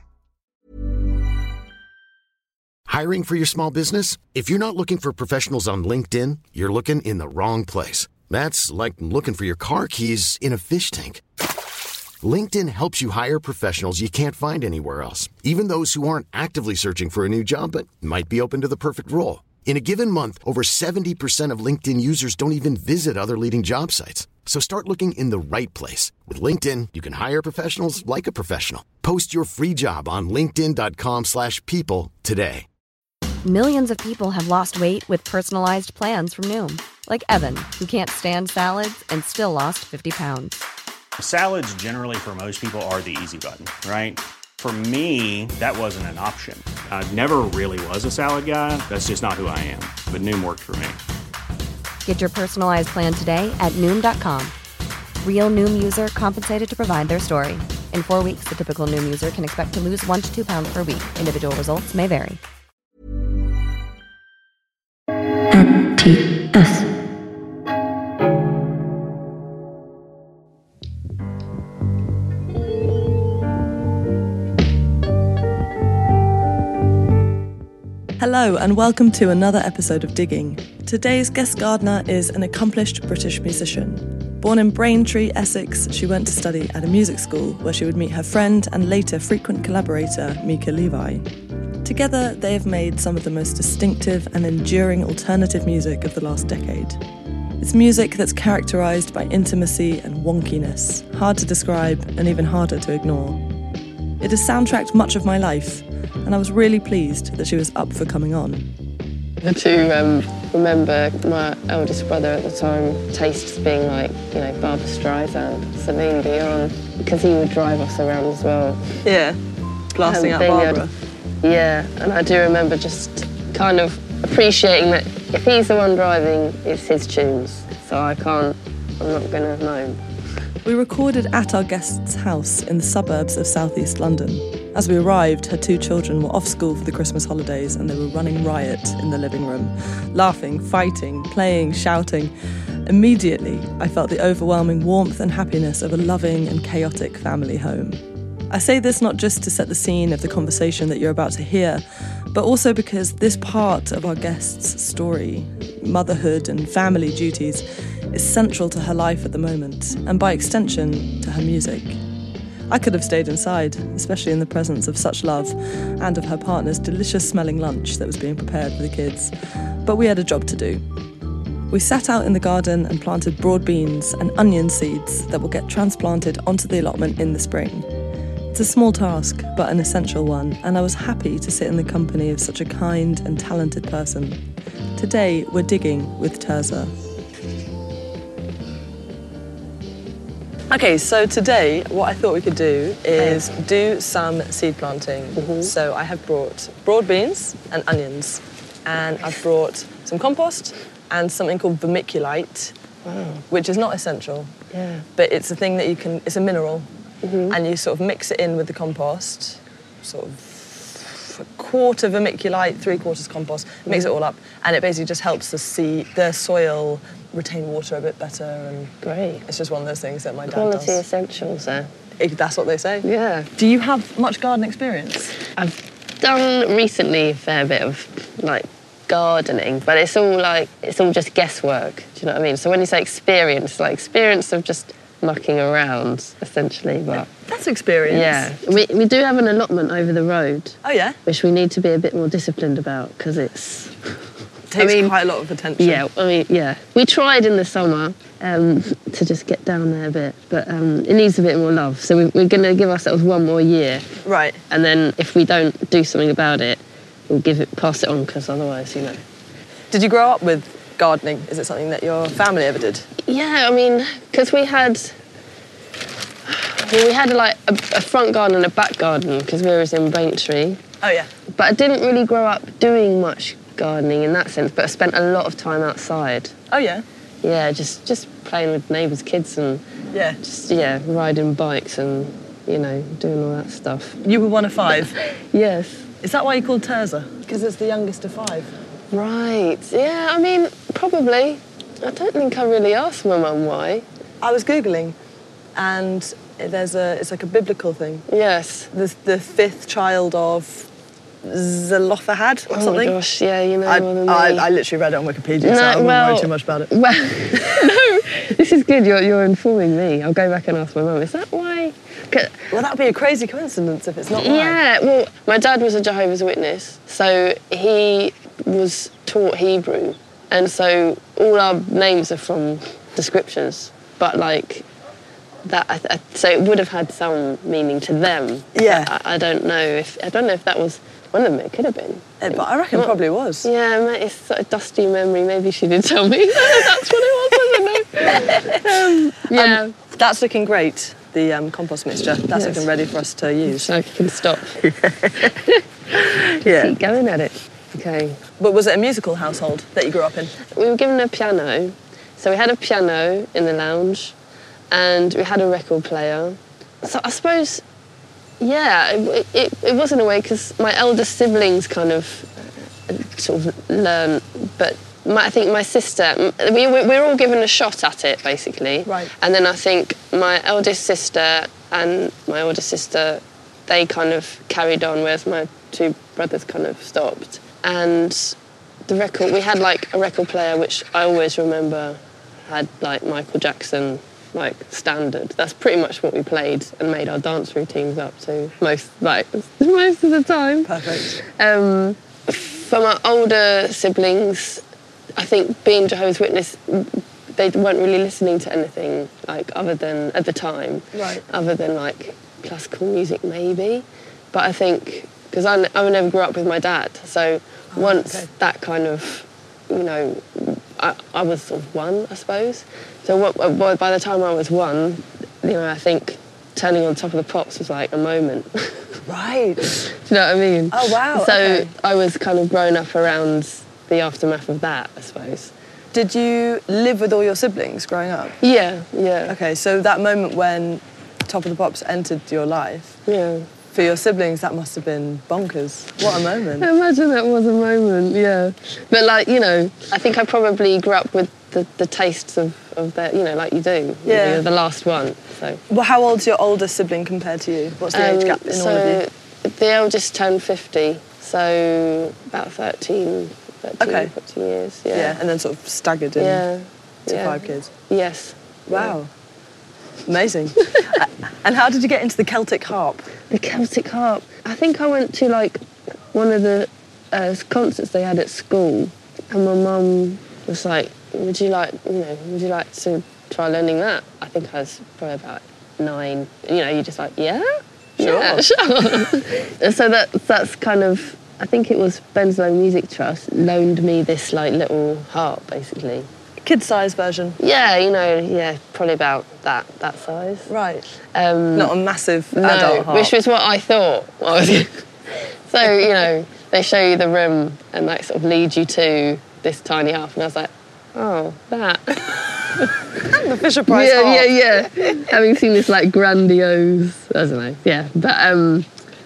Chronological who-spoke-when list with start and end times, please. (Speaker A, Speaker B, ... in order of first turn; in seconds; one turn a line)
Speaker A: 2.9-11.2
Speaker A: 12.2-32.6
Speaker B: 33.4-40.7
Speaker C: 41.2-51.0
Speaker B: 52.0-54.5
Speaker B: 55.2-62.4
Speaker D: 78.2-91.2
Speaker D: 91.8-97.0
Speaker D: 97.6-103.4
Speaker D: 104.2-108.7
Speaker E: 109.4-119.0
Speaker D: 119.0-119.4
Speaker D: 119.9-120.9
Speaker E: 120.0-120.8
Speaker E: 121.4-130.0
Speaker D: 130.6-142.3
Speaker D: 142.8-151.8
Speaker D: 152.3-162.0
Speaker D: 162.7-169.3
Speaker D: 169.8-170.8
Speaker D: 171.7-177.8
Speaker D: 178.5-184.4
Speaker D: 184.9-186.9
Speaker D: 190.7-202.7
Speaker E: 193.2-193.4
Speaker E: 195.4-195.7
Speaker E: 203.0-203.4
Speaker D: 203.5-204.5
Speaker E: 204.7-205.0
Speaker D: 205.2-206.9
Speaker E: 207.2-207.6
Speaker D: 207.5-221.0
Speaker E: 219.0-219.4
Speaker E: 220.5-221.9
Speaker D: 222.2-223.1
Speaker E: 223.0-223.5
Speaker D: 223.6-225.3
Speaker E: 225.6-237.3
Speaker D: 237.3-238.5
Speaker E: 238.1-244.1
Speaker D: 240.8-241.2
Speaker D: 244.7-246.0
Speaker E: 244.7-245.1
Speaker E: 245.8-254.2
Speaker D: 254.2-254.6
Speaker E: 254.7-259.2
Speaker D: 259.9-263.1
Speaker E: 263.2-265.1
Speaker E: 266.4-270.8
Speaker D: 271.0-271.3
Speaker E: 271.5-276.6
Speaker D: 276.7-277.0
Speaker E: 277.4-279.8
Speaker D: 280.1-280.4
Speaker E: 280.4-284.2
Speaker D: 284.2-285.2
Speaker E: 285.5-286.0
Speaker D: 286.2-288.7
Speaker E: 289.1-294.1
Speaker D: 294.4-295.1
Speaker D: 295.8-298.2
Speaker E: 298.3-298.9
Speaker D: 298.9-300.9
Speaker D: 301.4-303.1
Speaker E: 302.7-304.6
Speaker D: 303.8-306.9
Speaker E: 305.6-312.7
Speaker D: 312.7-314.8
Speaker E: 314.4-324.9
Speaker E: 325.6-339.9
Speaker D: 328.7-329.1
Speaker D: 332.4-333.7
Speaker D: 338.2-343.9
Speaker E: 342.5-342.9
Speaker E: 343.6-344.8
Speaker D: 344.8-345.6
Speaker E: 345.4-348.4
Speaker D: 346.2-346.9
Speaker D: 348.6-350.5
Speaker E: 350.7-354.4
Speaker E: 354.9-357.8
Speaker E: 358.6-394.8
Speaker D: 369.1-369.3
Speaker D: 390.8-391.4
Speaker E: 395.4-419.2
Speaker D: 401.1-401.4
Speaker D: 407.9-408.5
Speaker D: 419.2-420.0
Speaker E: 419.9-425.7
Speaker D: 420.9-421.9
Speaker D: 426.1-428.6
Speaker E: 428.6-429.6
Speaker D: 429.5-433.2
Speaker E: 433.2-433.7
Speaker D: 433.9-436.9
Speaker E: 436.8-445.8
Speaker D: 444.2-444.6
Speaker D: 445.9-449.2
Speaker E: 448.1-455.4
Speaker D: 454.0-454.3
Speaker D: 455.1-456.6
Speaker E: 456.4-459.1
Speaker D: 457.3-457.9
Speaker D: 458.9-459.3
Speaker D: 460.2-463.3
Speaker E: 463.5-465.8
Speaker E: 466.3-486.3
Speaker D: 478.2-478.6
Speaker D: 486.6-487.6
Speaker E: 487.6-490.7
Speaker D: 490.7-491.1
Speaker E: 491.3-491.9
Speaker D: 491.8-493.3
Speaker E: 492.5-495.0
Speaker E: 495.7-502.2
Speaker E: 502.8-503.2
Speaker D: 503.2-505.2
Speaker E: 503.9-508.9